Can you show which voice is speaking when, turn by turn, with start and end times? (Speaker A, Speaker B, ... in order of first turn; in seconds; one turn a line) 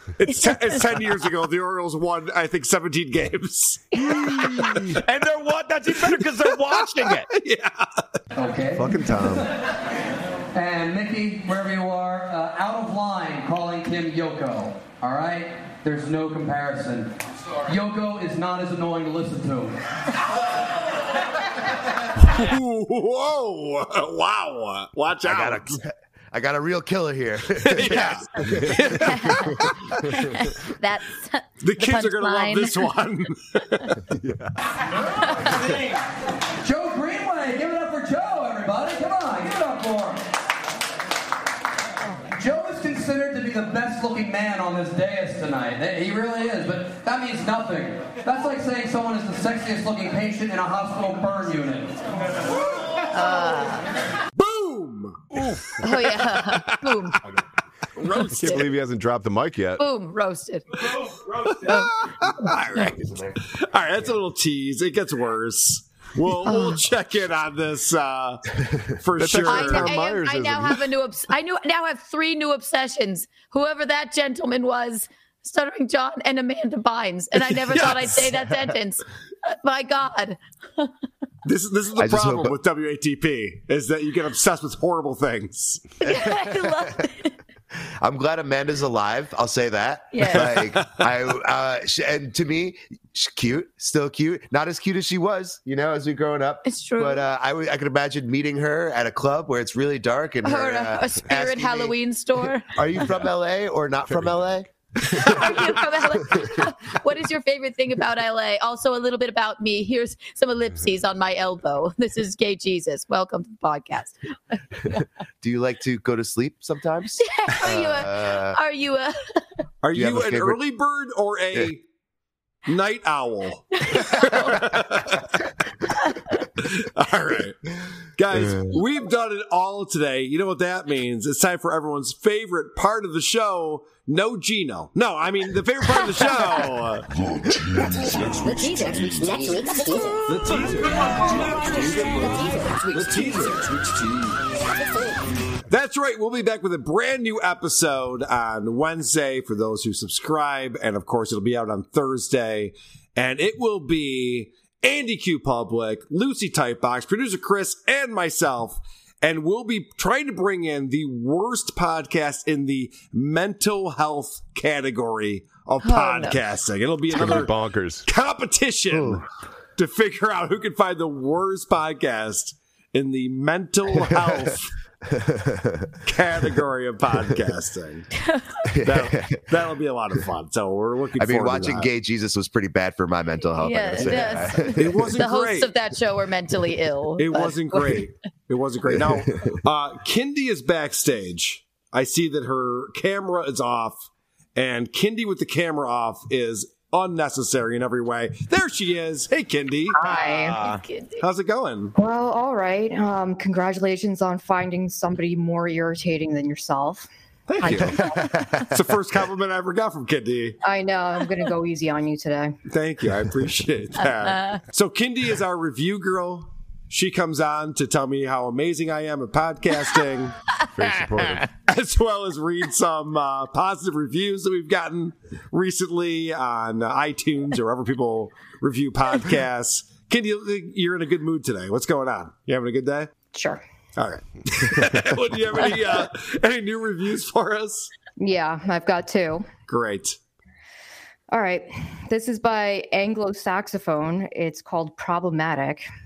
Speaker A: 0.2-5.0
Speaker B: 0.5-0.8
Speaker B: 4.0-4.6
Speaker C: 5.0-7.3
Speaker A: 6.0-8.0
Speaker D: 8.3-8.9
Speaker E: 8.7-9.5
Speaker D: 10.5-17.1
Speaker D: 17.6-19.8
Speaker A: 22.2-25.8
Speaker F: 25.2-28.8
Speaker A: 27.6-29.4
Speaker B: 27.9-28.1
Speaker E: 28.4-28.9
Speaker B: 28.9-29.6
Speaker B: 30.1-32.9
Speaker A: 31.6-33.9
Speaker E: 34.1-34.5
Speaker B: 35.2-35.6
Speaker D: 35.5-36.0
Speaker D: 36.6-40.2
Speaker D: 42.3-52.0
Speaker B: 53.1-53.9
Speaker A: 54.4-55.9
Speaker B: 55.8-57.2
Speaker A: 56.5-56.9
Speaker A: 58.0-58.4
Speaker B: 58.1-58.7
Speaker E: 58.3-59.8
Speaker B: 59.8-60.6
Speaker A: 61.5-68.4
Speaker B: 61.6-61.9
Speaker B: 66.4-66.8
Speaker A: 69.0-70.0
Speaker E: 69.2-70.8
Speaker B: 69.4-80.9
Speaker A: 77.5-78.3
Speaker A: 81.4-85.8
Speaker F: 82.0-82.5
Speaker B: 86.0-87.3
Speaker F: 88.0-102.0
Speaker B: 90.1-90.6
Speaker A: 90.3-91.1
Speaker B: 96.6-97.2
Speaker B: 100.4-102.8
Speaker F: 102.7-104.7
Speaker B: 105.1-114.2
Speaker F: 115.4-118.6
Speaker B: 117.2-119.4
Speaker A: 119.8-121.8
Speaker F: 119.9-120.6
Speaker A: 122.7-125.2
Speaker B: 123.8-124.6
Speaker A: 126.6-127.6
Speaker A: 128.2-137.1
Speaker G: 138.2-140.2
Speaker A: 140.2-143.7
Speaker G: 142.3-143.4
Speaker A: 145.7-169.2
Speaker B: 165.8-166.4
Speaker E: 167.1-168.1
Speaker A: 169.8-174.7
Speaker A: 176.0-178.1
Speaker F: 178.8-179.4
Speaker A: 178.8-181.9
Speaker F: 181.2-184.8
Speaker B: 183.6-188.0
Speaker A: 184.7-185.7
Speaker A: 187.2-200.0
Speaker H: 199.9-200.6
Speaker C: 200.0-200.8
Speaker B: 200.1-201.2
Speaker A: 201.2-201.9
Speaker H: 201.9-207.1
Speaker A: 207.5-208.0
Speaker H: 207.6-208.4
Speaker A: 208.7-210.6
Speaker H: 210.6-212.6
Speaker A: 212.7-220.3
Speaker B: 214.0-214.6
Speaker E: 220.7-221.4
Speaker A: 221.7-233.1
Speaker H: 233.3-233.6
Speaker A: 234.0-237.9
Speaker H: 238.2-239.5
Speaker A: 239.7-240.2
Speaker H: 241.3-245.9